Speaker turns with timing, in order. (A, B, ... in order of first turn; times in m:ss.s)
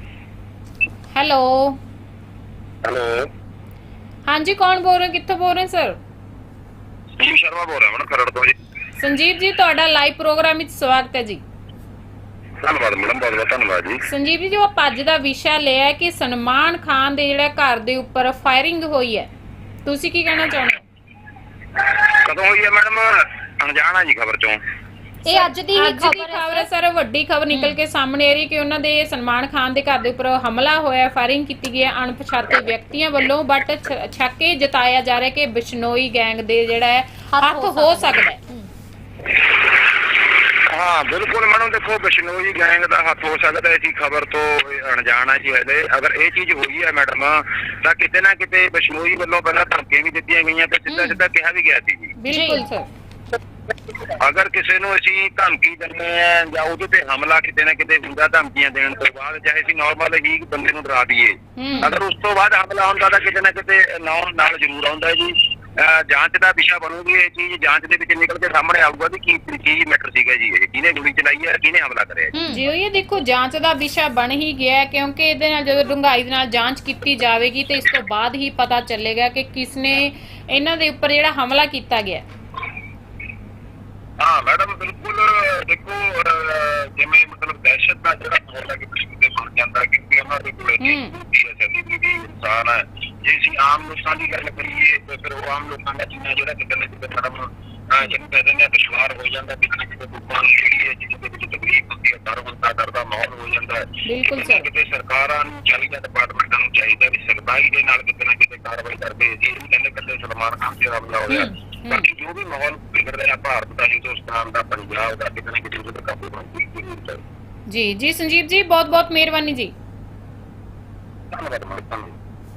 0:01.1-0:01.8 A
0:02.8-0:03.3 B
0:04.3-0:06.0 A
0:07.2-0:08.5 B
0:09.0-0:11.4 A
0:12.6-0:14.0 B
0:14.0-0:19.3 A
0:19.8-0:20.8 A
0:21.9-0:24.6 B
0:25.2-0:26.7 C
0:25.3-0:38.4 A
0:37.3-0:38.7 C
0:40.5-0:52.1 B
0:50.9-0:51.2 C
0:52.2-0:52.9 A
0:52.3-0:52.6 C
0:54.2-1:12.3 B
1:01.6-1:02.0 A
1:12.3-1:12.6 C
1:12.5-1:22.2 A
1:24.2-1:57.2 B
1:30.8-1:31.1 A
1:44.0-1:44.7 A
1:51.3-1:51.5 C
1:57.7-1:59.7 A
2:01.3-2:02.2 B